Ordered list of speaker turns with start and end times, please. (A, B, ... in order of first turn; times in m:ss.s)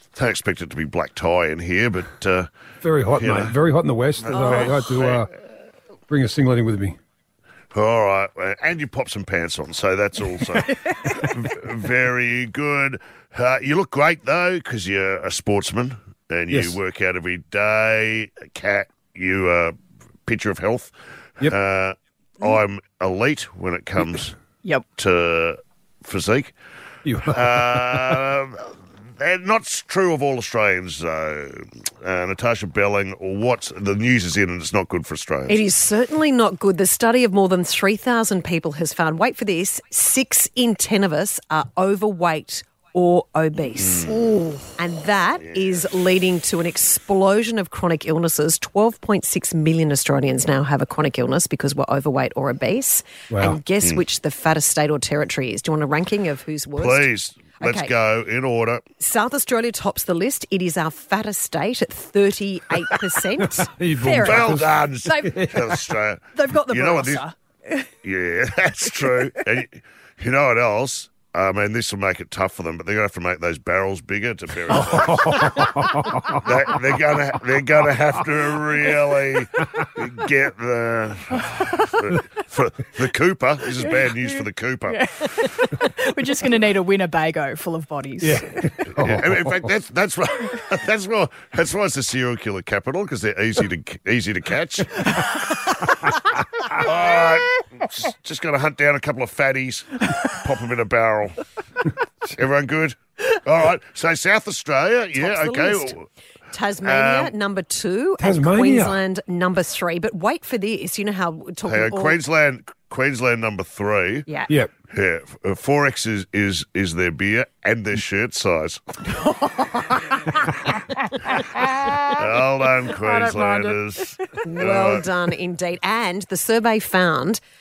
0:00.2-0:02.5 A
0:02.8-0:05.3 B
0:03.2-0:03.5 A
0:04.3-0:05.3 A
0:04.3-0:04.6 C
0:06.1-0:07.0 B
0:07.7-0:24.4 A
0:16.5-0:16.8 B
0:25.0-0:26.5 A
0:27.0-0:28.2 B
0:27.3-0:35.6 A
0:35.5-0:44.1 D
0:43.8-0:44.2 A
0:44.8-0:57.9 D
0:45.5-0:45.8 A
0:53.3-0:53.6 B
0:56.8-0:58.8 A
0:59.0-1:03.7 D
1:03.4-1:05.8 B
1:04.0-1:04.4 C
1:04.2-1:07.2 A
1:05.0-1:05.4 C
1:06.3-1:07.3 C
1:08.0-1:15.7 A
1:14.7-1:16.4 B
1:16.3-1:25.0 A
1:24.9-1:28.6 C
1:28.2-1:29.7 B
1:28.9-1:35.2 A
1:36.7-1:41.4 A
1:42.3-1:46.1 A
1:45.2-1:46.0 D
1:46.5-1:52.2 D
1:46.8-1:47.3 A
1:48.2-1:49.0 B
1:51.7-1:54.3 A
1:54.9-1:58.8 A
2:02.1-2:05.0 A
2:04.4-2:07.4 D